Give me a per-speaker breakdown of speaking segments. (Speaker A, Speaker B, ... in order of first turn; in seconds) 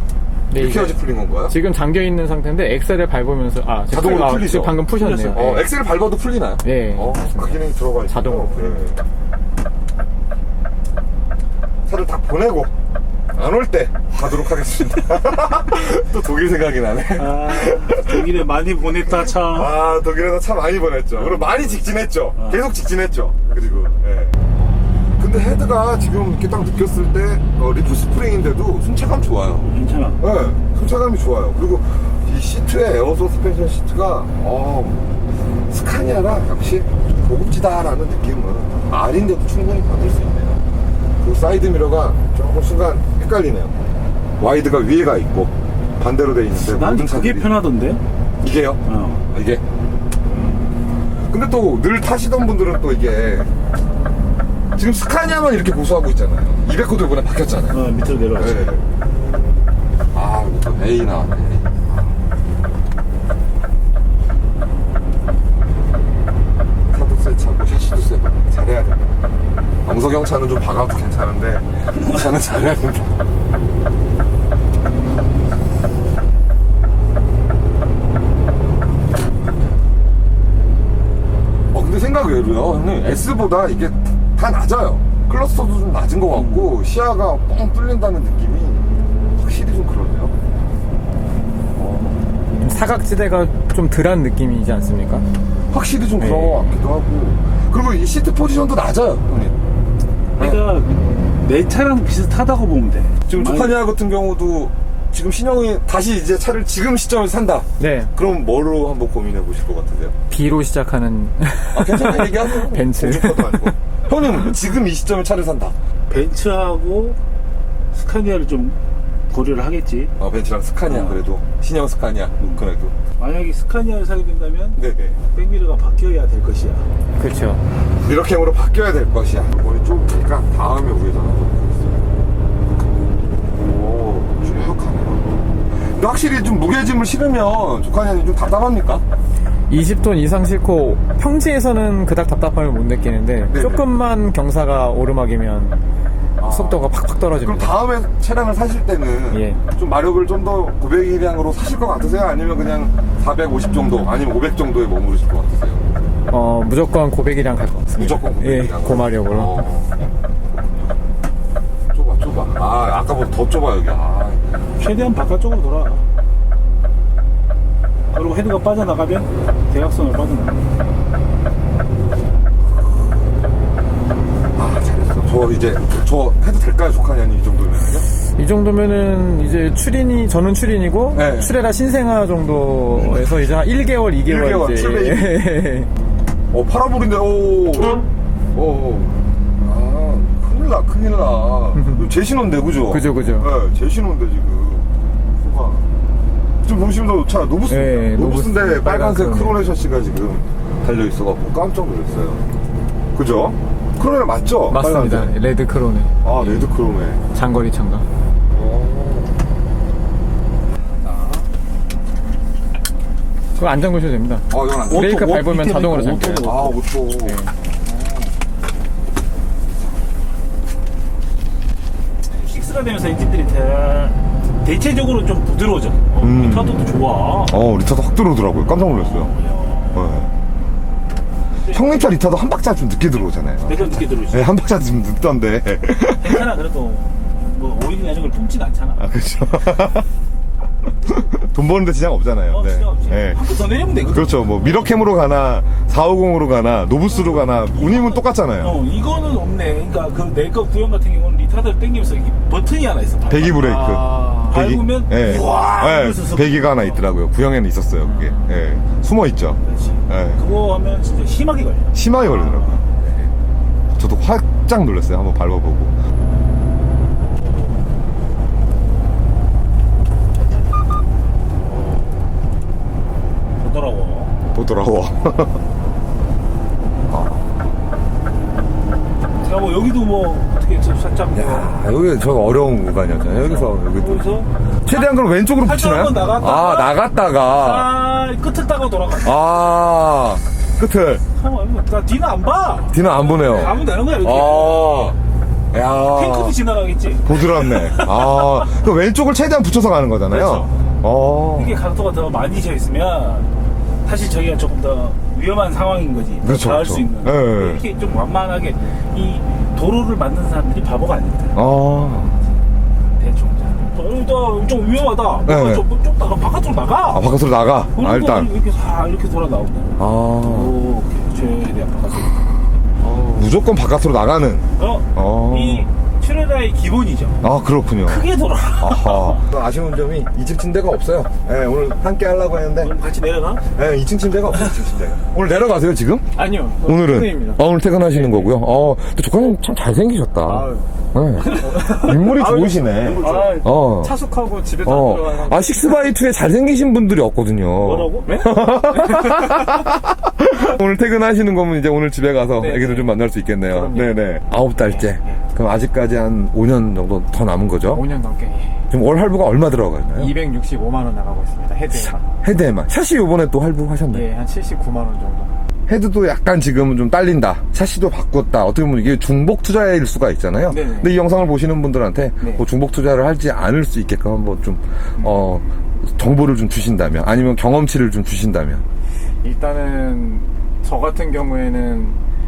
Speaker A: 0.5-5.7, 6.6-8.9, 92.6-95.2, 96.2-96.8, 107.8-108.1, 110.3-113.7, 127.2-127.6, 139.7-145.8, 146.5-147.7, 149.3-149.6, 156.3-159.6, 178.3-185.9, 191.7-192.1, 192.8-193.5, 197.7-199.7, 204.7-206.7, 207.3-208.1, 213.6-217.5, 253.5-254.7, 258.0-258.6, 336.3-338.5, 340.4-346.1, 348.2-349.8, 352.6-354.2, 354.8-355.4, 357.9-358.9, 360.1-362.3, 364.1-365.5, 370.7-371.2, 375.2-375.8, 379.4-382.2
Speaker B: 0.5-1.6, 3.9-4.8, 5.3-9.0, 11.9-12.7, 13.3-18.3, 19.3-24.4, 25.2-35.0, 35.7-40.6, 41.2-43.8, 44.4-47.6, 48.4-49.6, 51.3-53.5, 54.8-57.8, 58.4-58.8, 60.1-62.1, 66.9-69.1, 69.8-73.2, 81.7-88.8, 89.4-90.3, 91.8-92.2, 95.7-99.6, 103.3-110.1, 111.7-115.8, 120.2-122.9, 124.8-125.2, 128.0-131.9, 133.6-139.0, 143.5-143.9, 146.4-155.8, 157.9-160.0, 161.9-164.4, 174.6-178.1, 181.1-181.5, 182.9-183.2, 184.2-185.3, 186.5-188.0, 188.5-195.8, 196.6-202.4, 203.1-205.3, 206.2-207.2, 208.5-209.3, 211.1-211.4, 214.5-215.2, 216.4-217.4, 226.2-226.9, 227.4-229.3, 229.9-230.3, 231.7-236.5, 239.0-240.1, 241.1-243.4, 244.1-248.8, 253.3-260.4, 261.9-263.3, 263.9-265.9, 274.5-275.6, 277.1-277.4, 281.3-284.3, 284.8-287.9, 289.2-291.2, 292.9-295.2, 295.7-296.6, 297.2-301.8, 306.4-307.8, 311.5-312.4, 315.4-315.9, 317.1-318.5, 320.0-320.8, 323.3-325.9, 327.4-332.9, 333.7-336.3, 336.8-344.1, 344.8-358.0, 358.9-360.3, 362.0-364.3, 365.9-378.8
Speaker C: 4.9-5.5, 17.1-19.7, 21.1-21.7, 22.4-22.6, 29.6-30.2, 46.7-48.0, 48.9-49.2, 57.7-58.6, 86.3-86.7, 100.4-103.8, 116.1-117.2, 117.9-118.8, 119.3-120.1, 120.9-121.2, 123.2-124.8, 125.3-126.9, 164.8-166.0, 168.1-170.7, 214.8-216.8, 222.3-227.6, 228.7-230.1, 231.6-232.2, 233.7-234.5, 236.2-239.1, 242.5-244.8, 247.1-253.7, 254.5-257.0, 259.6-262.8, 271.6-272.2, 273.6-274.3, 279.4-281.8, 283.2-289.6, 291.3-295.1, 296.1-298.8, 300.3-300.7, 301.5-303.5, 304.0-311.6, 313.1-317.3, 317.9-322.5, 323.0-323.4, 324.8-327.4, 328.0-329.4, 332.8-333.6, 341.4-342.3, 342.9-343.7, 347.8-348.4